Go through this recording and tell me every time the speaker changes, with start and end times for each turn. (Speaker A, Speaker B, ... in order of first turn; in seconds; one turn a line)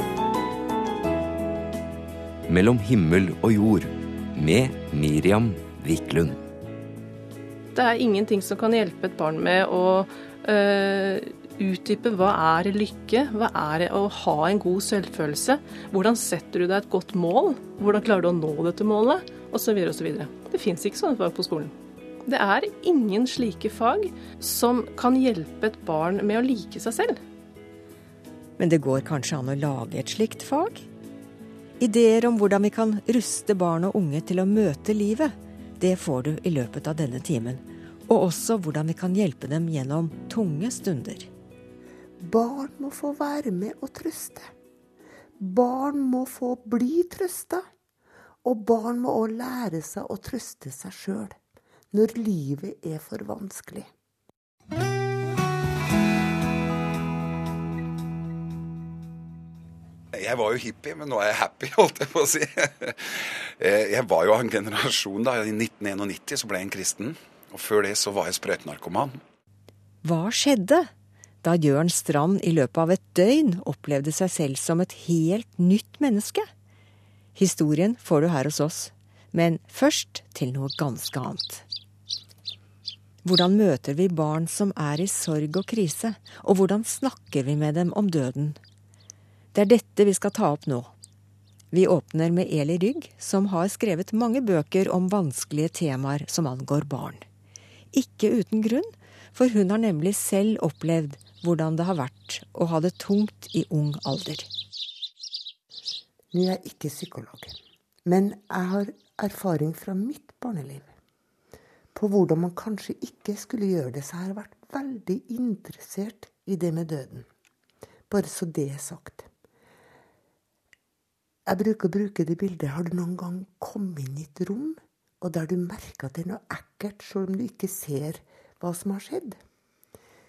Speaker A: 2.5-6.4
Speaker B: 7.7-21.7
Speaker B: 22.2-27.2
Speaker C: 28.6-30.9
Speaker C: 31.8-41.3
Speaker D: 42.2-44.5
Speaker D: 45.4-47.6
Speaker D: 48.4-51.3
Speaker D: 51.9-53.9
Speaker E: 60.1-69.2
Speaker C: 70.0-70.9
Speaker C: 71.4-76.5
Speaker C: 77.3-81.7
Speaker C: 83.2-88.6
Speaker C: 89.5-90.9
Speaker C: 91.7-97.2
Speaker C: 97.9-104.5
Speaker D: 106.3-110.9
Speaker D: 111.9-117.3
Speaker D: 118.1-119.3
Speaker D: 121.5-129.4